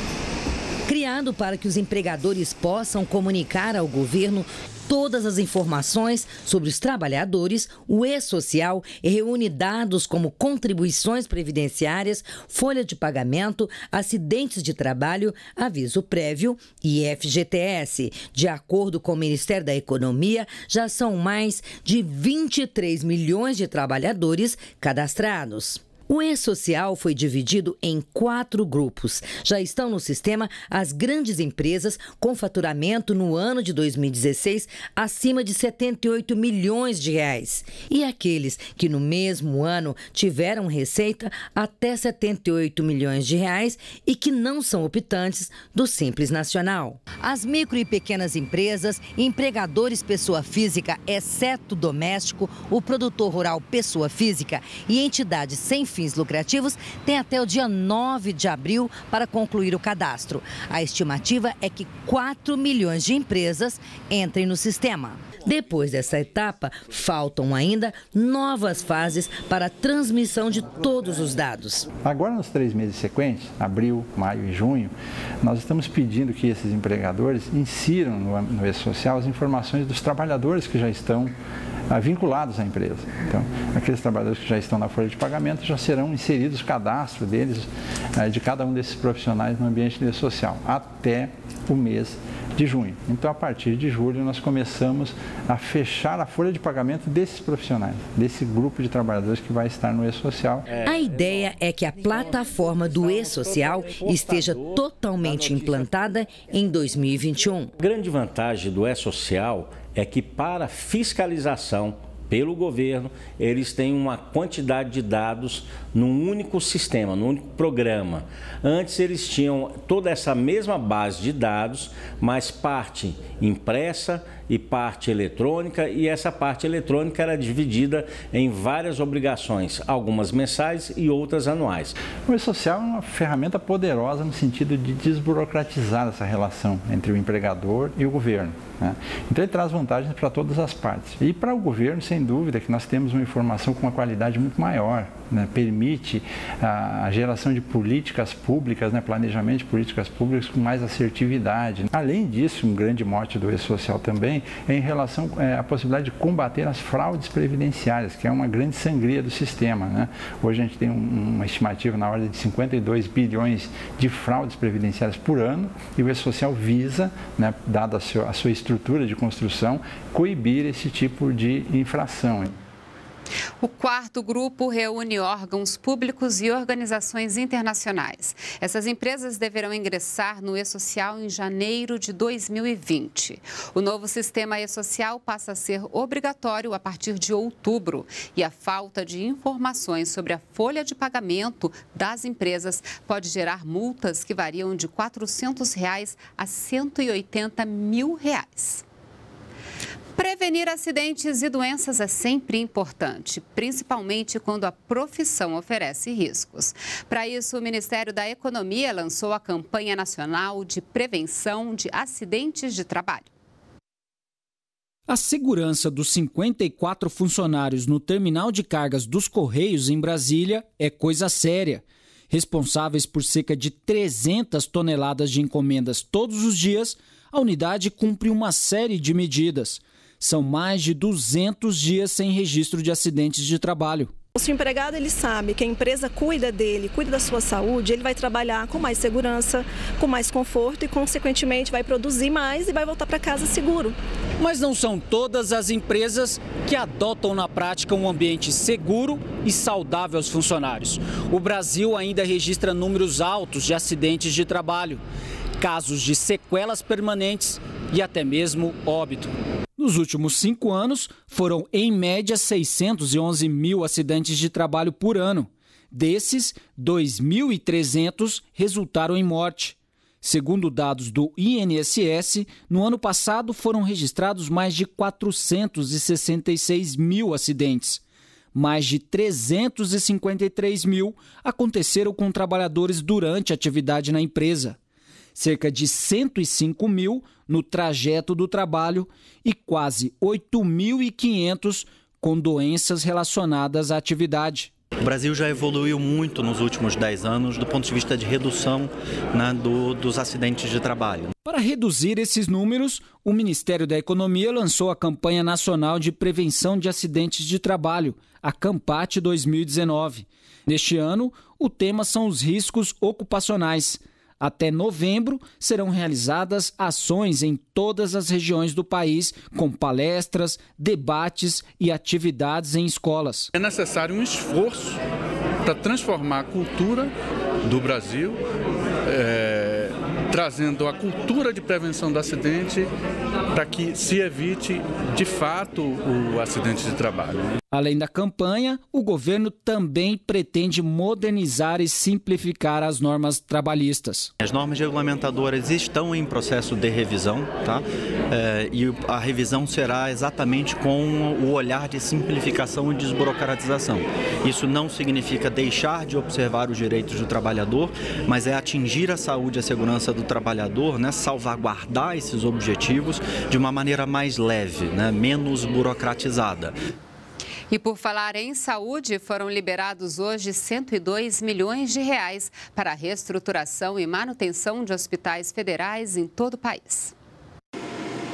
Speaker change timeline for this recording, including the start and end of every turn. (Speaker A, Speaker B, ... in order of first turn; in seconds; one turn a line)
Speaker A: 0.9-71.9
Speaker B: 72.0-81.3
Speaker B: 81.9-100.7
Speaker C: 100.7-101.5
Speaker A: 100.8-107.7
Speaker C: 103.2-104.8
Speaker C: 105.3-105.7
Speaker C: 107.8-131.9
Speaker B: 132.2-172.5
Speaker D: 173.6-198.8
Speaker D: 200.2-213.3
Speaker E: 215.1-234.1
Speaker F: 234.3-244.0
Speaker E: 244.4-255.0
Speaker E: 255.6-278.0
Speaker E: 278.5-284.8
Speaker E: 285.3-294.7
Speaker G: 295.0-301.3
Speaker E: 301.4-323.5
Speaker H: 323.5-325.0
Speaker H: 325.6-328.4
Speaker H: 329.0-332.9
Speaker H: 333.5-337.6
Speaker E: 337.7-344.3
Speaker G: 344.4-366.7
Speaker D: 367.7-377.1